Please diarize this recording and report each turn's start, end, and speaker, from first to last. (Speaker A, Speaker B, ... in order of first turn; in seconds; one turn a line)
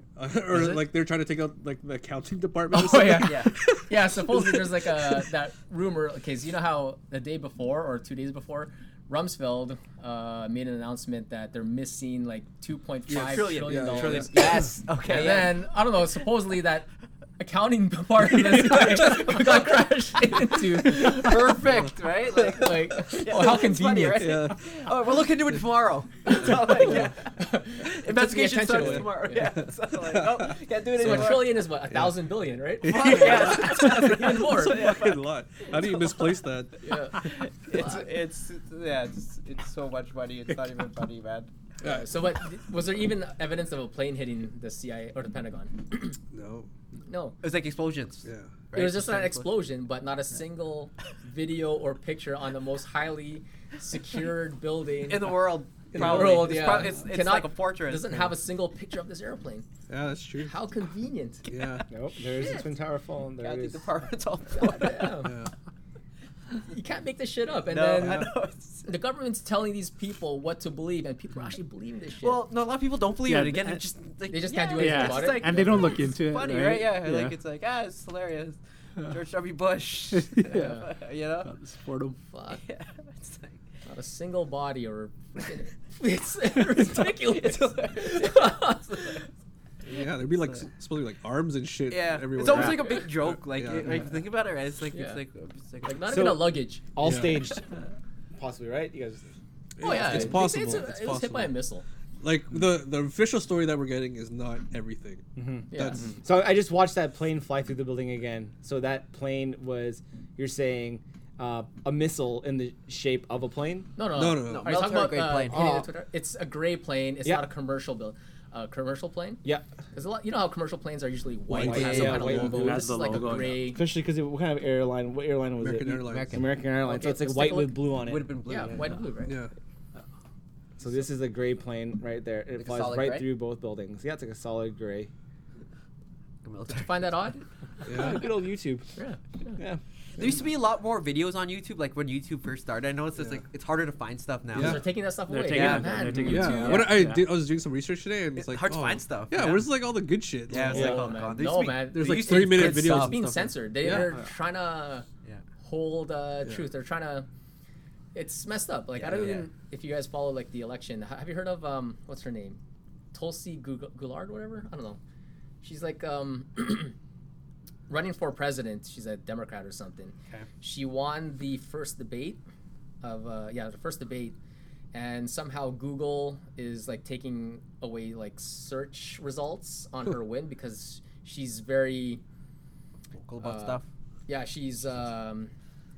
Speaker A: 0.2-5.2
Speaker B: 2.7-16.9
Speaker C: 3.2-3.6
Speaker C: 13.1-15.6
Speaker A: 13.1-14.6
Speaker B: 17.4-21.7
Speaker C: 18.5-19.7
Speaker C: 20.3-31.7
Speaker B: 22.3-24.5
Speaker A: 24.2-24.7
Speaker B: 26.4-29.6
Speaker A: 26.8-27.1
Speaker A: 28.7-32.1
Speaker B: 31.0-34.9
Speaker A: 32.8-36.8
Speaker C: 32.8-35.9
Speaker B: 36.8-38.1
Speaker C: 37.1-41.5
Speaker A: 41.8-42.1
Speaker B: 41.8-46.2
Speaker A: 46.3-46.7
Speaker B: 47.1-47.4
Speaker C: 47.4-49.5
Speaker A: 48.2-48.5
Speaker B: 48.7-59.6
Speaker C: 55.1-58.3
Speaker A: 55.9-56.5
Speaker A: 59.9-60.6
Speaker B: 60.4-61.5
Speaker C: 61.5-62.7
Speaker A: 61.5-61.9
Speaker D: 61.9-63.9
Speaker C: 63.4-65.3
Speaker B: 64.5-65.4
Speaker A: 65.2-65.5
Speaker B: 66.7-68.3
Speaker C: 67.7-68.9
Speaker A: 68.0-68.3
Speaker B: 68.8-72.4
Speaker C: 72.2-81.5
Speaker E: 73.2-73.8
Speaker B: 74.3-76.0
Speaker E: 74.8-77.4
Speaker E: 80.2-80.9
Speaker B: 80.5-80.9
Speaker E: 81.4-82.2
Speaker B: 82.3-82.6
Speaker C: 82.6-83.6
Speaker B: 83.8-89.3
Speaker C: 86.8-89.2
Speaker A: 89.8-94.1
Speaker C: 91.9-96.2
Speaker B: 92.5-93.0
Speaker B: 94.9-95.2
Speaker B: 95.8-96.9
Speaker D: 96.0-97.8
Speaker A: 97.0-97.4
Speaker D: 98.3-99.3
Speaker A: 99.8-101.5
Speaker B: 99.8-101.8
Speaker D: 100.0-100.4
Speaker A: 102.2-106.1
Speaker D: 105.4-113.9
Speaker B: 105.7-106.2
Speaker B: 114.0-123.8
Speaker A: 114.1-114.8
Speaker C: 114.4-115.8
Speaker D: 115.5-115.9
Speaker A: 121.5-122.8
Speaker C: 121.5-122.5
Speaker D: 121.5-128.3
Speaker E: 122.4-123.7
Speaker A: 125.6-126.5
Speaker C: 126.0-126.5
Speaker B: 126.8-129.4
Speaker C: 128.0-129.1
Speaker A: 129.3-129.5
Speaker D: 130.8-135.1
Speaker C: 132.6-133.3
Speaker C: 136.4-137.3
Speaker B: 136.7-137.4
Speaker A: 137.9-138.3
Speaker D: 137.9-138.9
Speaker B: 139.0-139.6
Speaker C: 140.2-144.8
Speaker A: 144.5-144.9
Speaker B: 144.6-147.0
Speaker E: 145.3-147.3
Speaker C: 145.5-145.8
Speaker A: 145.6-151.1
Speaker C: 148.4-149.7
Speaker C: 150.5-153.2
Speaker B: 150.6-155.1
Speaker A: 151.9-154.1
Speaker B: 155.6-157.3
Speaker B: 158.1-162.6
Speaker C: 159.0-159.5
Speaker B: 163.1-165.0
Speaker B: 165.6-166.9
Speaker B: 167.9-172.4
Speaker B: 173.0-174.4
Speaker B: 174.9-182.2
Speaker C: 183.1-183.9
Speaker B: 183.4-185.5